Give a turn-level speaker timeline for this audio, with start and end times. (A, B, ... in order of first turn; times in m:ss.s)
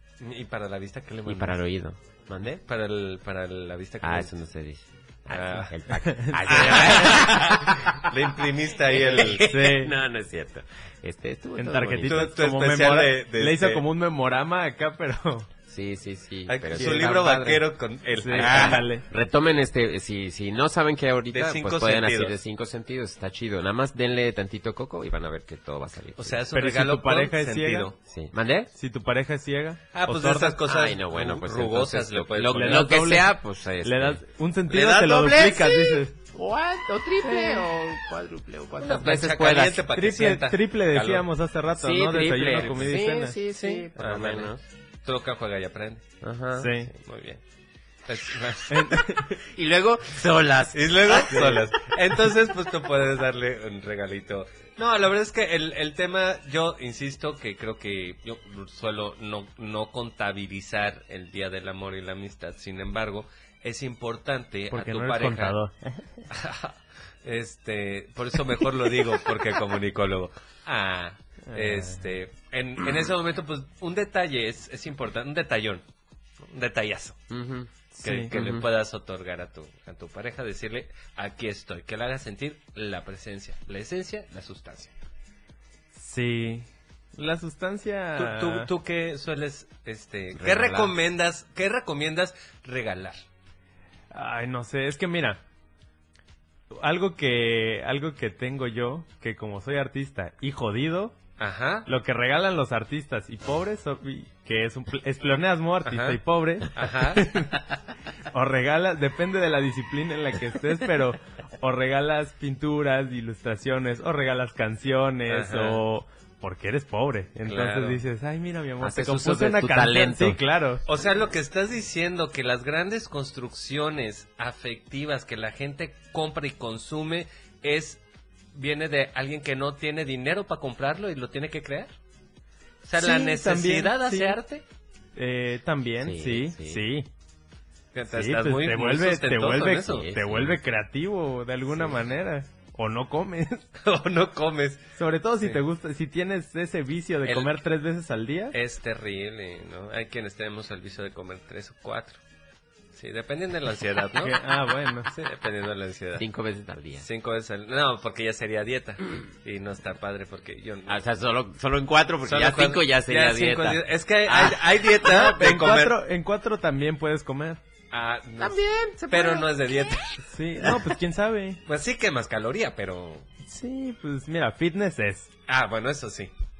0:00.2-0:01.6 A
0:01.2-0:02.6 B
0:02.7-0:04.3 A
0:04.0-0:08.0 B
0:05.3-0:05.7 A
0:06.0-0:07.2 C
0:06.5-0:09.4 A
0:08.9-0:12.3 B
0:09.4-0:09.9 C
0:11.6-0:15.5 C
0:12.0-0:13.8 A
0:15.7-0:17.6 B
0:16.5-0:18.8 A
0:18.2-0:19.0 C
0:18.3-0:26.4 B
0:21.3-0:22.4 A
0:26.2-0:27.9 A
0:26.5-0:27.9 C
0:28.1-0:28.7 B
0:28.7-0:30.6 C
0:29.9-0:32.9 A
0:30.6-0:34.2 B
0:32.5-0:33.3 C
0:33.8-0:36.1 C
0:34.7-0:39.8 B
0:38.8-0:41.3 A
0:39.9-0:43.4 C
0:41.8-0:44.6 B
0:42.6-0:43.0 A
0:43.5-0:44.5 A
0:45.0-0:46.0 A
0:46.2-0:46.8 B
0:46.6-0:46.9 C
0:46.9-0:47.4 A
0:48.1-0:49.0 A
0:48.7-0:49.4 C
0:49.4-0:51.6 B
0:50.7-1:05.6 A
0:51.3-0:51.6 C
1:04.7-1:05.7 C
1:06.3-1:15.8 A
1:11.4-1:12.0 C
1:16.4-1:17.2 A
1:17.3-1:17.7 B
1:17.9-1:18.3 C
1:18.0-1:24.9 A
1:18.3-1:18.7 B
1:25.9-1:28.7 C
1:28.2-1:33.2 A
1:30.4-1:30.9 B
1:34.1-1:35.4 C
1:36.7-1:41.2 C
1:41.4-1:41.8 A
1:41.8-1:47.5 C
1:45.9-1:46.2 A
1:46.7-1:47.3 A
1:48.3-2:00.8 C
1:55.3-1:55.8 A
1:57.4-1:58.0 A
1:58.8-2:00.4 B
2:00.8-2:08.0 A
2:08.5-2:11.9 A
2:12.8-2:14.6 A
2:13.0-2:14.4 C
2:15.1-2:17.1 C
2:16.0-2:16.8 B
2:17.9-2:20.1 A
2:18.1-2:23.7 C
2:19.9-2:20.6 B
2:23.8-2:24.9 A
2:25.0-2:28.5 C
2:27.2-2:27.6 A
2:28.5-2:32.2 A
2:32.9-2:34.4 A
2:34.2-2:35.1 C
2:35.1-2:36.2 A
2:36.2-2:37.0 B
2:37.0-2:41.0 A
2:40.9-2:44.6 B
2:42.2-2:46.0 A
2:45.0-2:47.6 C
2:47.9-2:50.2 A
2:48.4-2:50.0 B
2:50.3-2:51.6 C
2:51.6-2:53.3 A
2:53.5-2:55.3 C
2:55.5-2:56.3 A